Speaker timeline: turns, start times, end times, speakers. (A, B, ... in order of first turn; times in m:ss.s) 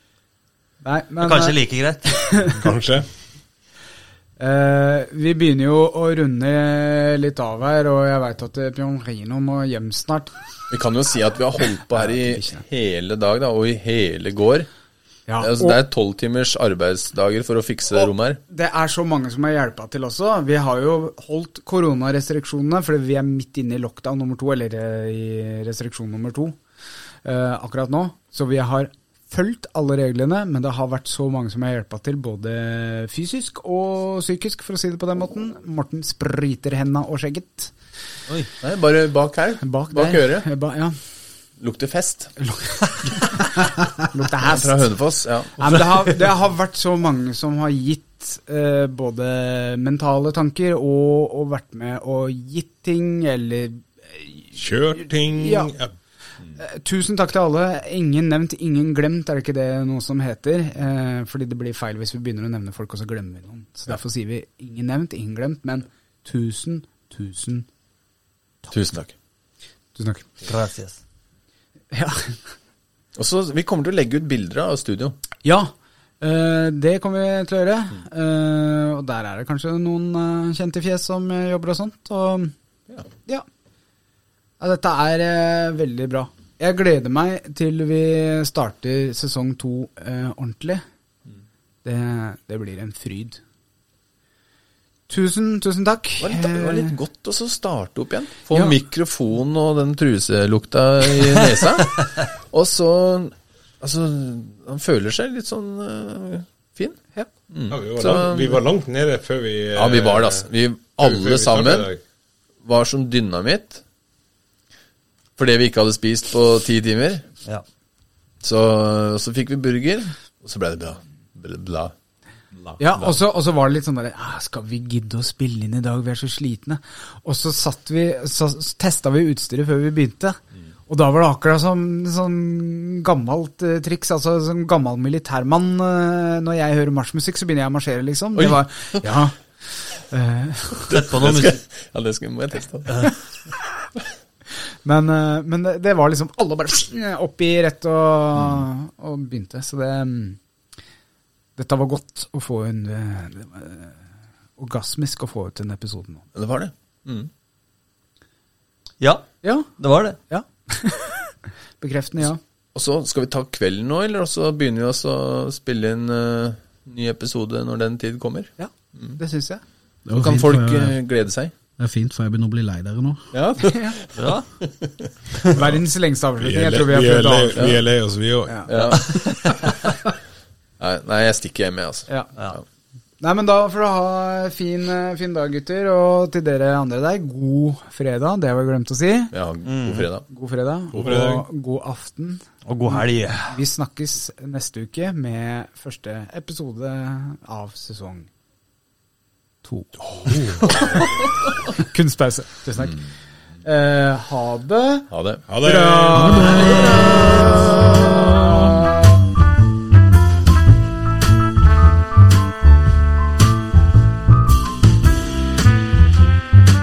0:00.8-0:02.6 A
0:01.2-0:02.0 B
0:02.4-0:03.1 C
0:04.4-0:10.3 A
0:10.7-0:14.7 D
0:12.0-0:12.6 A
0:15.3-0:15.8 A
0:15.4-0:18.4 D
0:17.9-0:26.6 A
0:27.2-0:37.7 A
0:38.6-0:40.5 D
0:39.6-0:41.0 A
0:41.6-0:42.3 D
0:42.4-0:44.9 A
0:44.4-0:45.9 D
0:45.6-0:54.5 A
0:54.5-0:55.9 C
0:55.2-0:55.7 A
0:56.6-1:07.6 A
1:08.7-1:09.1 D
1:10.0-1:10.3 A
1:10.4-1:11.0 B
1:11.9-1:12.4 A
1:13.1-1:15.2 D
1:15.4-1:22.5 A
1:24.6-1:30.8 A
1:31.8-1:33.4 A
1:35.1-1:37.0 A
1:36.2-1:48.6 D
1:38.5-1:38.8 A
1:47.7-1:52.0 C
1:49.7-1:51.9 D
1:52.6-1:53.8 D
1:55.4-1:57.2 D
1:58.4-2:01.9 D
2:02.8-2:10.4 A
2:10.9-2:20.9 A
2:18.4-2:19.0 D
2:20.9-2:23.2 D
2:20.9-2:21.6 B
2:24.8-2:30.4 A
2:31.6-2:34.0 A
2:34.6-2:36.2 A
2:36.3-2:37.3 D
2:39.0-2:40.2 B
2:39.4-2:39.7 A
2:40.3-2:42.4 A
2:42.7-2:49.2 D
2:48.6-2:49.6 A
2:50.1-2:51.0 E
2:50.2-2:51.5 D
2:51.8-2:53.3 E
2:53.3-2:54.1 D
2:53.6-2:54.0 A
2:54.1-2:54.5 B
2:54.8-2:55.1 D
2:55.5-2:55.8 C
2:55.5-2:57.7 A
2:56.4-2:58.9 C
2:57.6-2:57.8 D
2:58.7-2:59.8 D
2:59.0-2:59.4 B
3:00.8-3:02.6 D
3:03.2-3:09.3 A
3:09.3-3:10.3 D
3:09.6-3:10.1 B
3:10.3-3:18.3 A
3:10.9-3:11.3 D
3:11.0-3:11.4 C
3:12.6-3:13.6 B
3:19.6-3:20.4 A
3:20.1-3:21.1 C
3:21.8-3:23.0 A
3:23.6-3:25.1 A
3:25.1-3:25.4 D
3:25.5-3:27.2 C
3:25.6-3:29.0 A
3:26.1-3:27.4 E
3:26.9-3:27.2 B